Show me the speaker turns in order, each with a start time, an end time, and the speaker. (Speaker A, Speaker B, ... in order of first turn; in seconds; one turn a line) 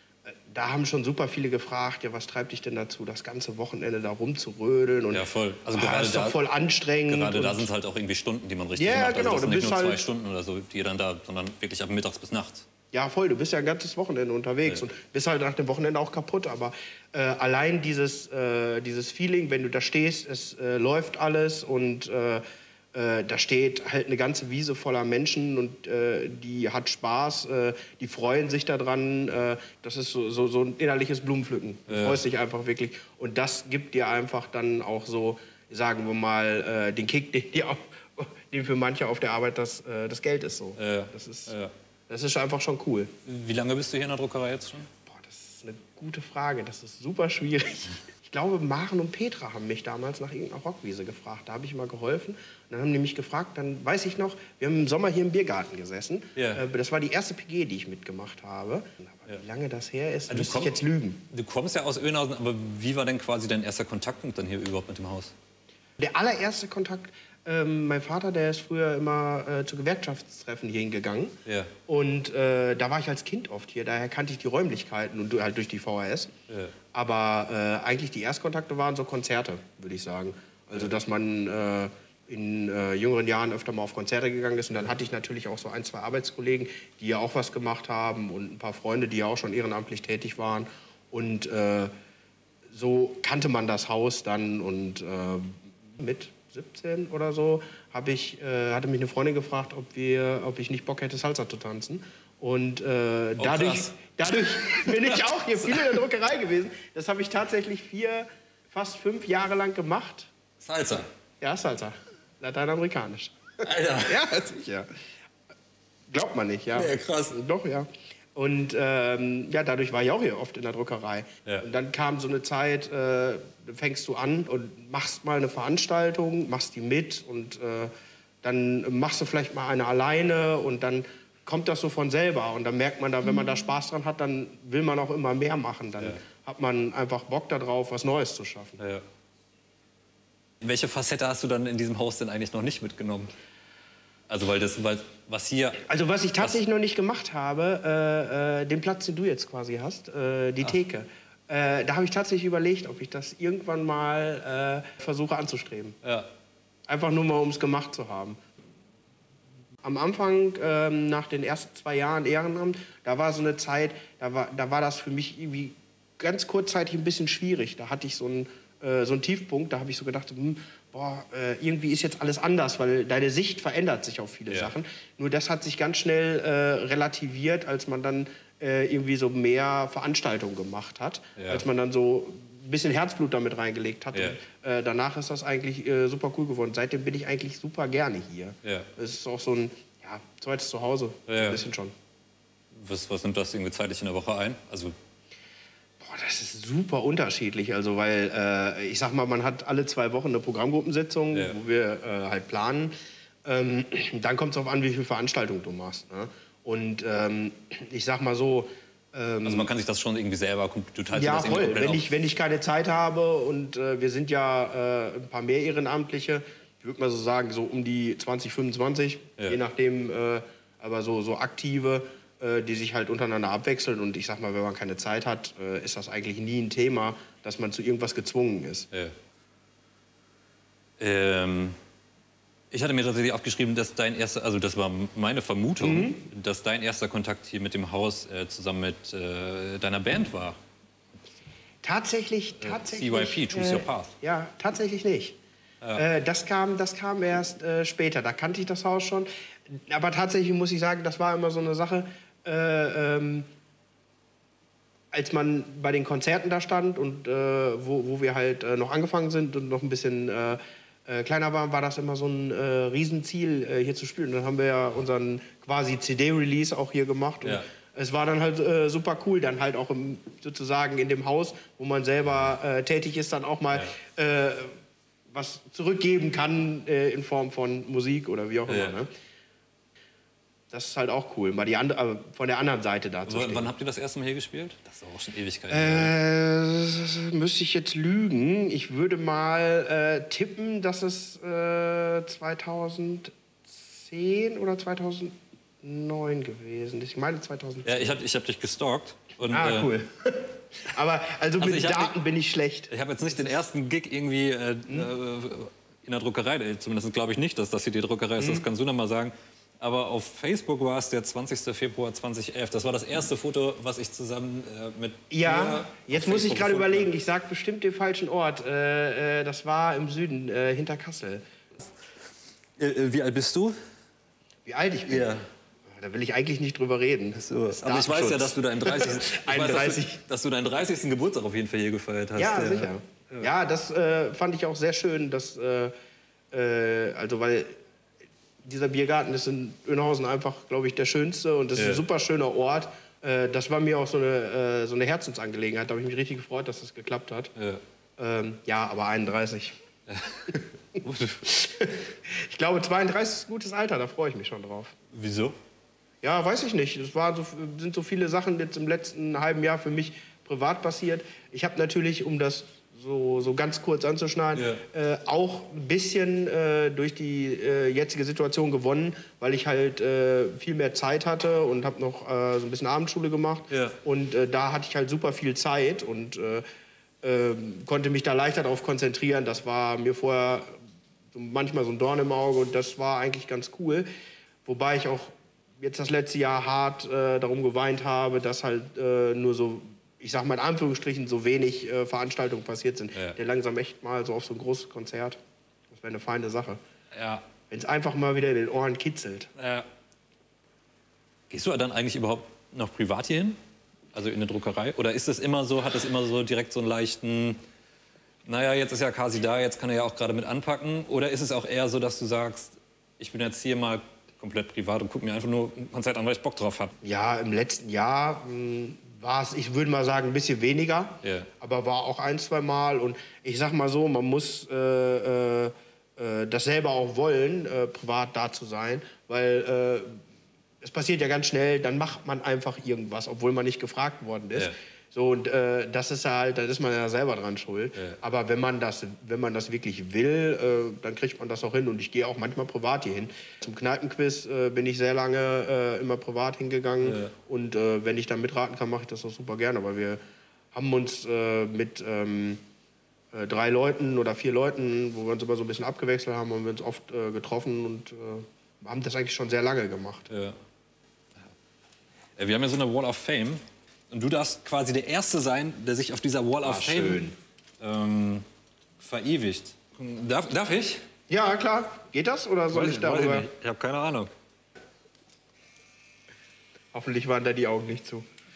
Speaker A: 0.3-7.7
Speaker B: 5.1-6.4
Speaker B: 7.1-12.7
Speaker A: 8.8-10.1
Speaker A: 12.9-41.5
Speaker B: 31.9-32.2
Speaker B: 40.8-41.7
Speaker A: 42.1-43.1
Speaker B: 43.3-44.9
Speaker A: 45.1-61.2
Speaker B: 56.4-56.6
Speaker B: 60.3-60.8
Speaker B: 61.3-65.3
Speaker A: 66.0-71.3
Speaker B: 71.5-71.7
Speaker A: 71.9-76.3
Speaker B: 76.5-76.8
Speaker A: 76.9-91.9
Speaker A: 92.7-110.3
Speaker B: 103.4-103.9
Speaker B: 104.6-105.8
Speaker B: 110.6-111.1
Speaker A: 111.4-113.4
Speaker B: 113.6-114.3
Speaker A: 114.0-114.9
Speaker A: 116.1-127.9
Speaker B: 116.7-117.4
Speaker A: 128.4-138.8
Speaker B: 138.8-139.1
Speaker B: 140.6-143.3
Speaker B: 144.3-145.9
Speaker A: 145.8-156.0
Speaker B: 156.0-156.3
Speaker A: 156.9-158.4
Speaker A: 159.8-191.9
Speaker B: 181.4-181.6
Speaker B: 184.1-184.4
Speaker B: 191.3-191.6
Speaker B: 192.7-195.0
Speaker A: 196.0-202.9
Speaker B: 201.3-201.6
Speaker A: 203.4-209.7
Speaker B: 209.4-212.1
Speaker A: 211.1-228.9
Speaker B: 231.0-231.8
Speaker B: 232.7-240.6
Speaker A: 235.8-236.2
Speaker A: 241.8-245.4
Speaker B: 242.6-244.1
Speaker A: 245.9-253.5
Speaker A: 255.1-274.7
Speaker A: 275.3-279.1
Speaker B: 278.7-279.0
Speaker A: 280.7-283.7
Speaker B: 283.3-286.1
Speaker A: 285.7-298.2
Speaker B: 297.9-299.9
Speaker A: 299.5-303.6
Speaker B: 301.6-302.1
Speaker B: 302.9-317.1
Speaker A: 308.4-308.7
Speaker A: 315.3-321.4
Speaker B: 322.8-323.8
Speaker A: 324.7-330.2
Speaker B: 325.1-325.5
Speaker B: 327.4-333.5
Speaker A: 332.4-335.9
Speaker A: 336.5-337.8
Speaker A: 338.6-347.5
Speaker B: 341.8-342.0
Speaker B: 347.6-347.8
Speaker A: 348.2-349.8
Speaker B: 350.1-351.5
Speaker A: 351.4-354.9
Speaker B: 355.1-355.6
Speaker A: 356.2-376.6
Speaker B: 364.5-364.8
Speaker B: 373.7-374.0
Speaker A: 377.2-380.8
Speaker A: 381.3-384.1
Speaker A: 384.7-395.4
Speaker A: 395.9-396.8
Speaker B: 397.1-397.4
Speaker A: 397.7-399.5
Speaker B: 399.6-399.9
Speaker B: 401.5-403.6
Speaker B: 404.1-407.6
Speaker B: 408.4-416.9
Speaker A: 417.0-430.2
Speaker B: 421.2-421.5
Speaker A: 430.8-450.2
Speaker B: 447.0-447.3
Speaker A: 450.7-452.6
Speaker A: 453.3-460.3
Speaker B: 460.3-460.6
Speaker B: 462.4-468.4
Speaker A: 466.6-467.4
Speaker B: 469.0-471.0
Speaker A: 471.3-473.5
Speaker B: 472.7-474.3
Speaker A: 476.9-478.2